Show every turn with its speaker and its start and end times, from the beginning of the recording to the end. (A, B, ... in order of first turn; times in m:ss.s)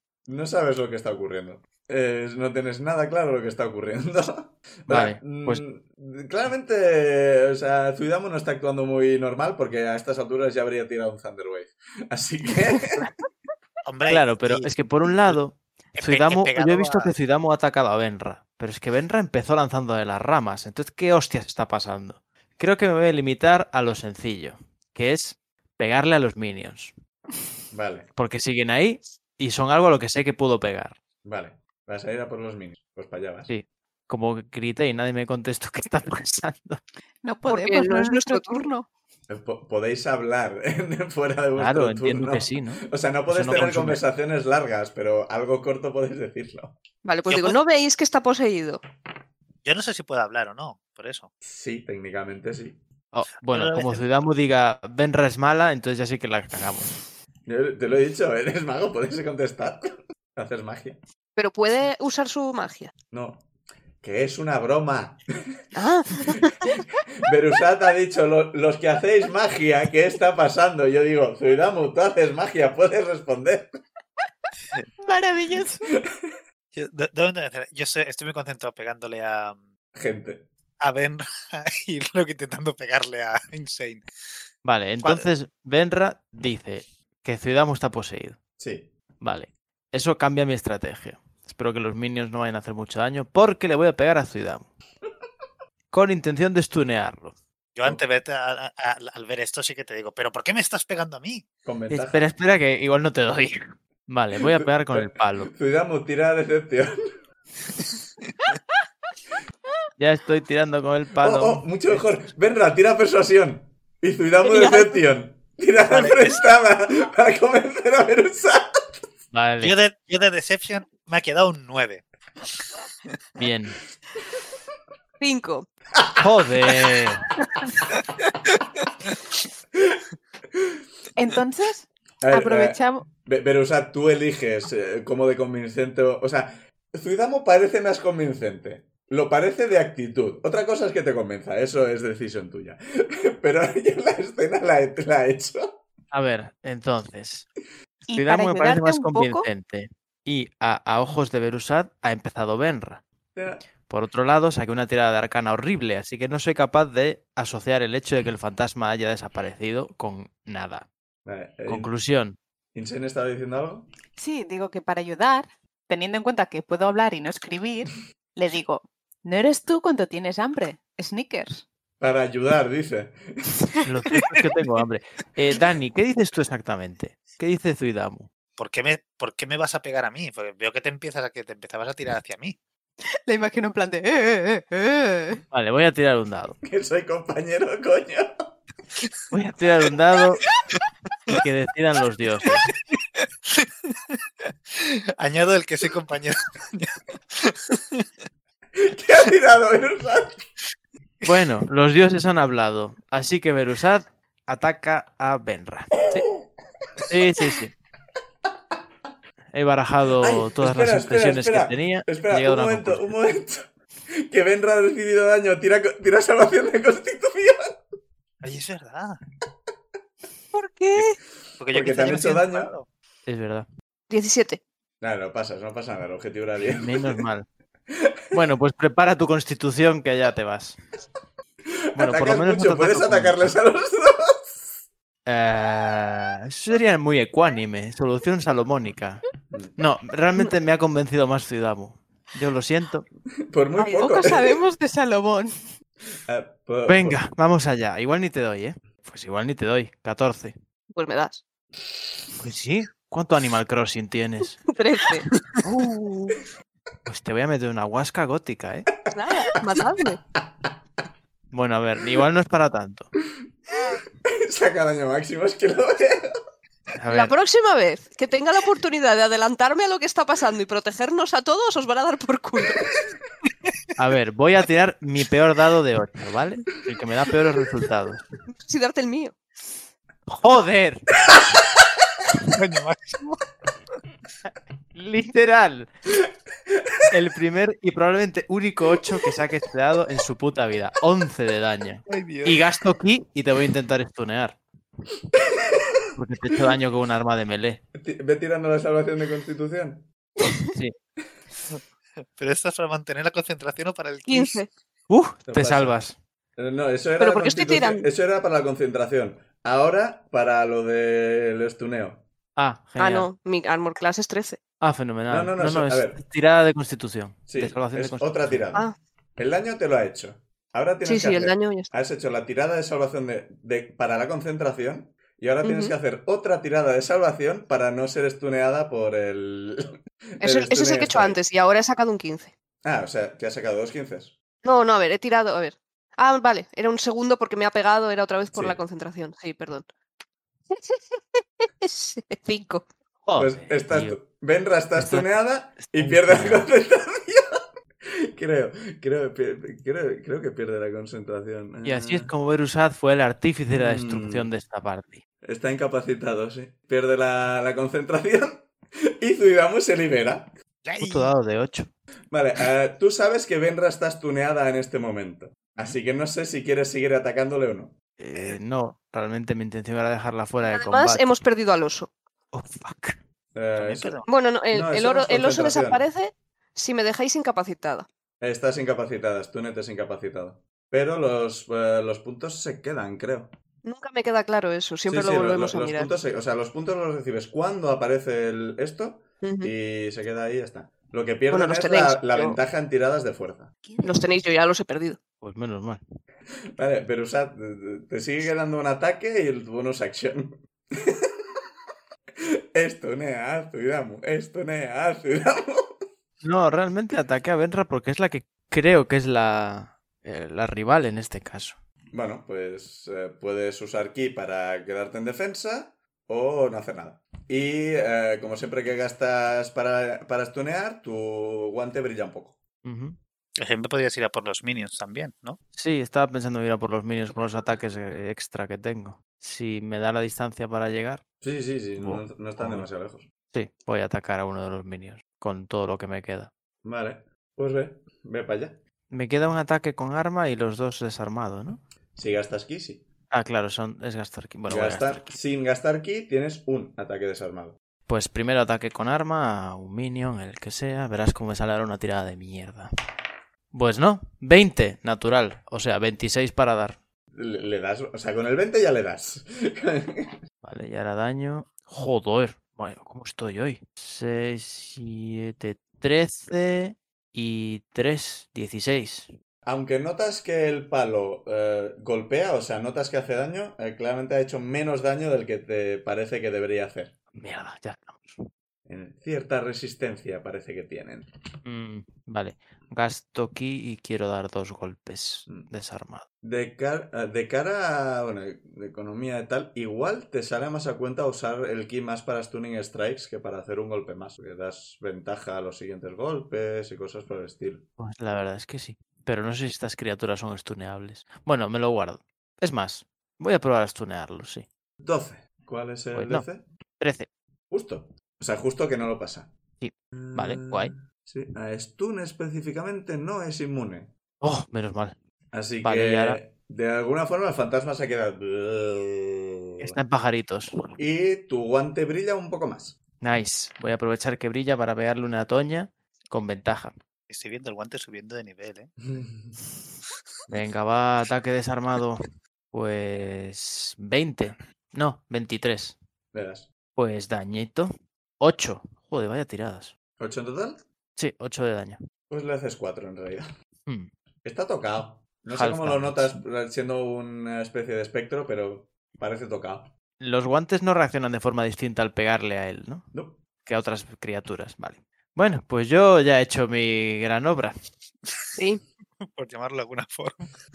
0:00.3-0:13.1 A
0:04.9-0:05.6 B
0:13.8-0:14.7 C
0:14.1-0:26.9 B
0:16.0-0:17.1 C
0:27.7-0:28.1 A
0:28.2-0:31.0 B
0:31.2-0:33.5 A
0:33.5-0:36.8 B
0:37.2-0:38.9 D
0:37.5-0:38.6 E
0:39.3-0:46.7 A
0:41.6-0:44.0 B
0:47.0-0:48.8 E
0:47.3-0:47.6 C
0:49.6-0:51.3 C
0:51.4-0:52.8 A
0:53.1-0:57.0 B
0:53.5-0:54.0 C
0:57.4-1:01.0 A
1:01.4-1:02.9 E
1:03.1-1:03.4 A
1:04.0-1:05.6 A
1:05.7-1:06.7 E
1:07.2-1:13.8 A
1:15.0-1:15.8 D
1:16.0-1:16.3 A
1:16.7-1:19.6 C
1:19.9-1:20.5 A
1:20.8-1:24.0 C
1:24.6-1:28.4 B
1:28.6-1:28.9 A
1:29.2-1:34.7 B
1:35.9-1:37.4 B
1:37.8-1:41.4 C
1:41.6-1:42.2 A
1:41.9-1:45.5 B
1:44.5-1:47.0 A
1:50.0-1:52.0 B
1:51.2-1:58.9 A
1:54.4-1:55.0 E
1:55.8-1:56.4 C
1:59.3-1:59.7 B
1:59.6-2:02.0 C
2:03.4-2:03.8 B
2:05.2-2:05.7 E
2:06.2-2:07.3 B
2:11.2-2:13.0 D
2:12.2-2:25.8 A
2:26.1-2:27.5 B
2:28.1-2:29.5 D
2:28.1-2:33.0 B
2:33.3-2:33.6 A
2:33.9-2:40.8 B
2:41.2-2:41.9 A
2:41.7-2:42.4 B
2:42.7-2:43.9 A
2:44.2-2:51.6 D
2:52.0-2:53.3 A
2:53.8-2:58.3 B
2:58.6-3:02.6 C
3:03.3-3:05.4 D
3:05.5-3:06.6 B
3:06.6-3:08.4 A
3:09.3-3:10.4 B
3:11.3-3:12.7 B
3:13.5-3:14.2 C
3:14.7-3:18.0 C
3:18.7-3:20.4 A
3:21.2-3:26.3 B
3:27.0-3:27.7 B
3:29.5-3:33.1 B
3:30.2-3:37.8 A
3:38.4-3:39.2 C
3:40.5-3:41.2 D
3:41.6-3:42.9 C
3:41.7-3:42.7 A
3:43.2-3:43.7 B
3:44.1-3:44.6 E
3:45.0-3:47.2 A
3:46.6-3:47.4 B
3:47.9-3:48.2 A
3:48.3-3:50.8 B
3:51.9-3:54.7 A
3:52.0-3:53.5 B
3:55.2-3:59.2 B
3:59.5-3:59.8 A
3:59.8-4:03.1 B
4:03.5-4:04.6 A
4:03.8-4:05.6 D
4:06.3-4:07.2 A
4:06.8-4:10.5 B
4:10.9-4:11.4 E
4:12.4-4:14.6 B
4:14.7-4:15.3 E
4:17.0-4:18.9 B
4:19.1-4:20.2 E
4:21.5-4:23.1 B
4:24.2-4:26.3 A
4:27.0-4:27.3 B
4:27.1-4:32.9 E
4:34.0-4:38.2 B
4:38.5-4:39.3 E
4:40.3-4:41.0 B
4:42.5-4:43.4 C
4:44.9-4:45.9 B
4:47.1-4:54.6 B
4:52.1-4:52.6 C
4:56.1-4:57.8 B
4:57.9-5:00.1 A
5:02.4-5:04.6 C
5:04.3-5:04.7 E
5:05.1-5:06.2 B
5:05.5-5:05.9 A
5:06.6-5:12.2 A
5:07.2-5:08.0 E
5:12.6-5:13.3 B
5:13.0-5:14.6 E
5:14.8-5:18.6 B
5:15.3-5:16.2 A
5:17.5-5:31.4 A
5:21.0-5:21.9 E
5:25.6-5:25.9 E
5:30.4-5:32.5 E
5:32.8-5:34.3 A
5:34.6-5:39.9 E
5:38.5-5:38.8 A
5:40.7-5:42.8 E
5:43.2-5:44.2 B
5:43.4-5:47.6 A
5:45.0-5:45.3 B
5:45.8-5:46.7 B
5:48.1-5:52.3 A
5:51.8-5:55.2 B
5:53.7-5:54.5 A
5:55.4-5:58.7 A
5:59.2-6:00.5 A
6:00.8-6:01.3 C
6:01.0-6:01.9 B
6:02.3-6:07.9 A
6:08.2-6:11.2 B
6:10.7-6:12.1 E
6:12.5-6:13.2 B
6:13.5-6:16.0 A
6:13.8-6:14.3 C
6:14.3-6:18.1 E
6:18.4-6:23.5 A
6:23.8-6:26.1 E
6:25.1-6:33.7 A
6:29.4-6:29.7 E
6:31.5-6:32.6 E
6:33.8-6:34.2 D
6:34.0-6:35.2 E
6:35.4-6:36.0 B
6:36.8-6:41.6 A
6:42.7-6:45.9 A
6:46.4-6:51.8 B
6:52.1-7:02.6 A
7:02.8-7:03.2 B
7:03.6-7:05.6 C
7:05.7-7:11.2 B
7:11.4-7:13.2 A
7:12.0-7:12.9 B
7:13.5-7:16.5 B
7:16.8-7:18.8 A
7:19.1-7:21.8 B
7:22.2-7:23.0 A
7:23.3-7:25.2 B
7:24.7-7:27.8 A
7:28.1-7:32.9 B
7:33.7-7:37.0 B
7:37.3-7:40.4 A
7:40.6-7:49.3 B
7:49.6-7:57.1 A
7:57.3-7:58.5 B
7:58.9-8:01.3 A
8:01.6-8:06.2 B
8:06.4-8:17.8 A
8:18.0-8:24.6 B
8:25.0-8:26.6 A
8:26.1-8:26.4 B
8:27.0-8:27.3 B
8:27.7-8:29.5 A
8:29.8-8:30.9 B
8:30.1-8:34.1 A
8:34.4-8:35.2 B
8:35.5-8:40.0 A
8:35.8-8:36.4 B
8:39.8-8:40.9 B
8:41.0-8:43.0 A
8:43.2-8:46.9 B
8:47.3-8:48.9 C
8:49.1-8:49.5 A
8:50.5-8:56.0 B
8:56.3-8:56.7 A
8:57.0-8:59.9 B
9:00.2-9:00.8 A
9:01.2-9:02.0 B
9:02.3-9:03.5 A
9:04.4-9:09.9 A
9:05.5-9:06.4 B
9:10.2-9:13.1 B
9:13.1-9:13.4 A
9:13.6-9:17.7 B
9:18.6-9:18.8 E
9:19.2-9:20.5 C